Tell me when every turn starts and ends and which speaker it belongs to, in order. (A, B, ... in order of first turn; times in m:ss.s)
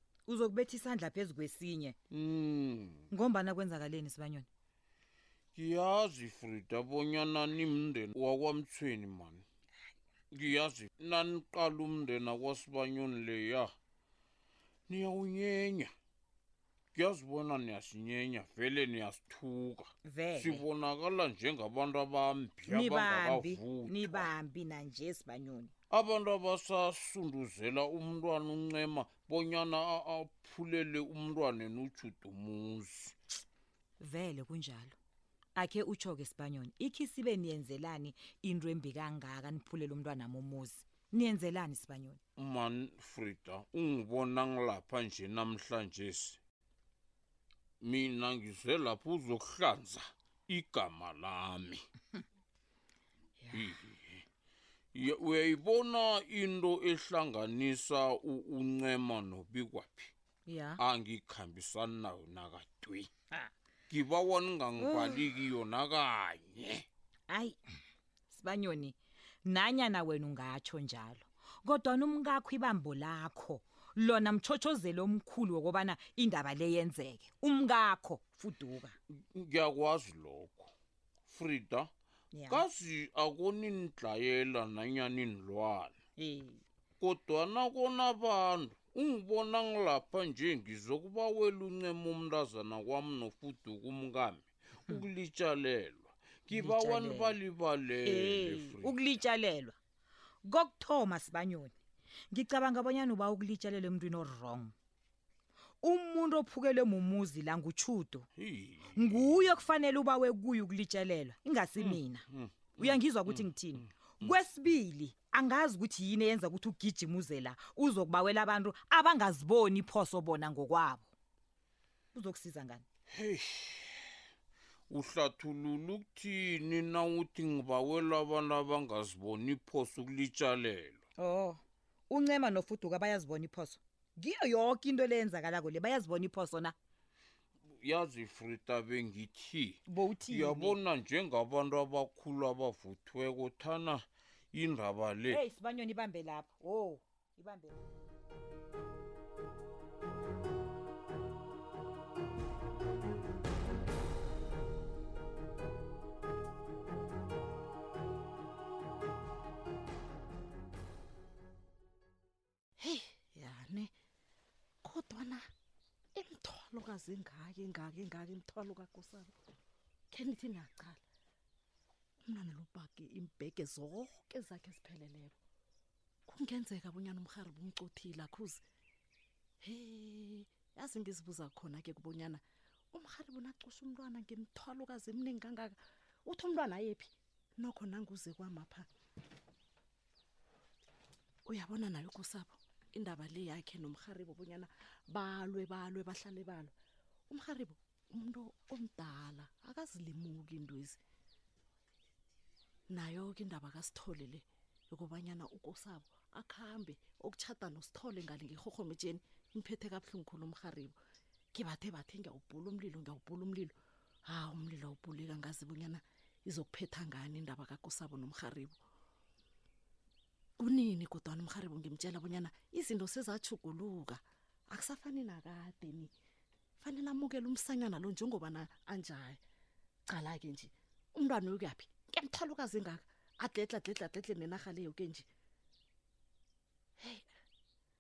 0:00.3-0:02.0 A
0:02.1-0:03.1 B
0:03.1-0:04.5 A
0:05.6-0:09.4 B
0:10.3-0:13.7 B
0:14.9-0:15.9 B
0:17.0-0:24.3 B
0:20.0-0:20.7 A
0:22.6-0:25.7 A
0:25.9-0:33.2 B
0:34.0-0:35.0 A
0:35.6-0:42.2 A
0:42.4-0:46.4 B
0:47.8-0:51.8 B
0:53.4-0:53.8 A
0:53.5-0:54.2 B
0:55.0-1:00.1 B
1:00.5-1:00.8 A
1:00.8-1:03.1 B
1:03.9-1:06.8 B
1:04.8-1:05.4 A
1:07.3-1:07.6 A
1:08.3-1:19.0 A
1:19.3-1:20.7 B
1:21.3-1:21.9 B
1:22.3-1:22.7 A
1:22.5-1:25.9 B
1:26.2-1:26.6 A
1:27.0-1:39.0 B
1:36.5-1:37.4 A
1:38.0-1:39.8 A
1:40.4-1:41.7 A
1:42.3-1:44.7 A
1:45.8-1:48.3 A
1:48.4-1:49.4 B
1:48.9-1:52.2 A
1:51.8-1:53.5 B
1:52.8-2:01.1 A
2:02.1-2:02.8 A
2:03.1-2:04.1 B
2:04.9-2:11.0 B
2:11.2-2:16.8 A
2:17.8-2:25.4 B
2:19.9-2:20.8 A
2:25.3-2:27.8 A
2:42.8-2:43.9 C
2:44.8-2:45.4 C
2:46.2-2:49.3 C
2:50.1-2:51.0 C
2:52.2-2:55.4 C
2:56.3-2:58.6 C
2:59.6-3:02.4 C
3:02.9-3:08.9 C
3:11.5-3:16.7 C
3:17.3-3:21.0 C
3:22.9-3:31.0 C
3:31.5-3:33.7 C
3:34.3-3:38.8 C
3:40.6-3:46.1 C
3:46.8-3:49.4 C
3:50.1-3:55.3 C
3:57.0-3:57.2 C